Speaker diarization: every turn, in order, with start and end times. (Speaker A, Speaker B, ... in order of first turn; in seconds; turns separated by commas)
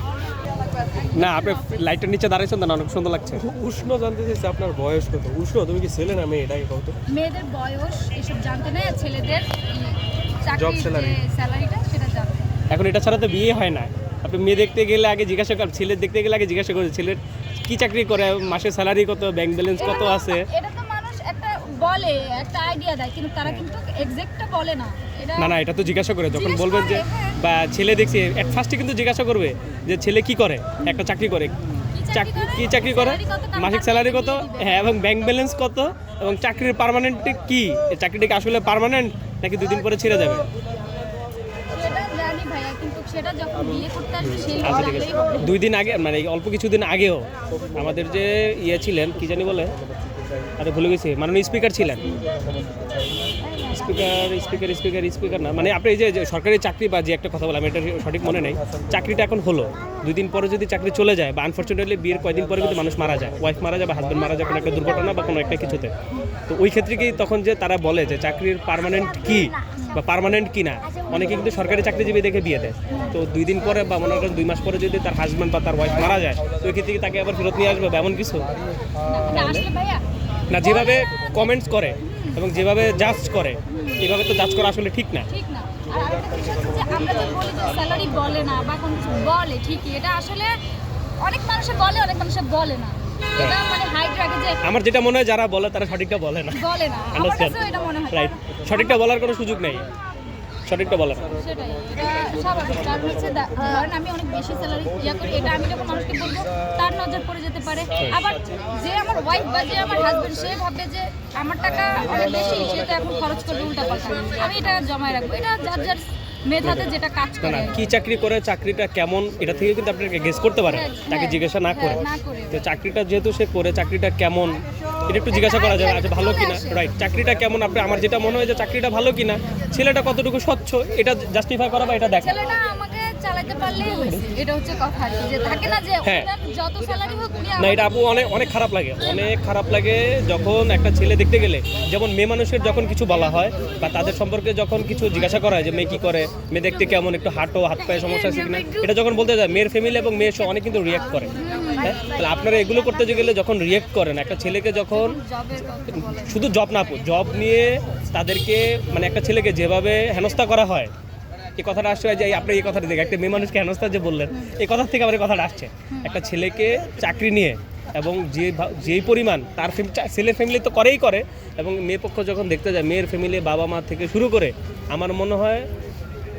Speaker A: 0.9-1.9, Speaker B: 1.1-3.5, Speaker C: 3.4-7.0, Speaker A: 7.1-12.5, Speaker C: 10.6-11.2, Speaker B: 12.7-20.5, Speaker A: 19.8-25.6, Speaker B: 25.4-31.6, Speaker A: 26.3-27.4, Speaker A: 31.9-34.9, Speaker B: 32.1-40.5, Speaker A: 41.7-45.6, Speaker B: 44.4-49.8, Speaker B: 50.6-52.1, Speaker C: 52.1-53.3, Speaker B: 53.7-65.9, Speaker C: 62.4-63.2, Speaker C: 64.5-65.2, Speaker B: 66.5-78.5, Speaker A: 69.8-70.0, Speaker A: 72.9-73.2, Speaker C: 78.8-79.2, Speaker A: 79.0-81.2, Speaker B: 79.3-79.6, Speaker B: 80.5-85.3, Speaker A: 82.0-82.4, Speaker A: 83.7-84.1, Speaker A: 85.3-90.5, Speaker C: 86.5-86.9, Speaker A: 91.2-94.6, Speaker B: 94.6-96.6, Speaker A: 96.5-99.0, Speaker B: 97.1-99.9, Speaker B: 100.7-101.3, Speaker A: 101.3-117.8, Speaker B: 108.0-108.2, Speaker C: 112.8-113.1, Speaker B: 116.6-116.9, Speaker B: 117.4-132.4, Speaker A: 120.7-122.7, Speaker A: 125.3-126.9, Speaker A: 132.2-138.3, Speaker B: 136.0-136.3, Speaker B: 137.6-155.2, Speaker A: 146.7-147.0, Speaker A: 147.9-148.9, Speaker A: 151.3-152.2, Speaker A: 154.9-156.5, Speaker B: 155.9-160.9, Speaker B: 161.6-175.7, Speaker A: 165.9-166.2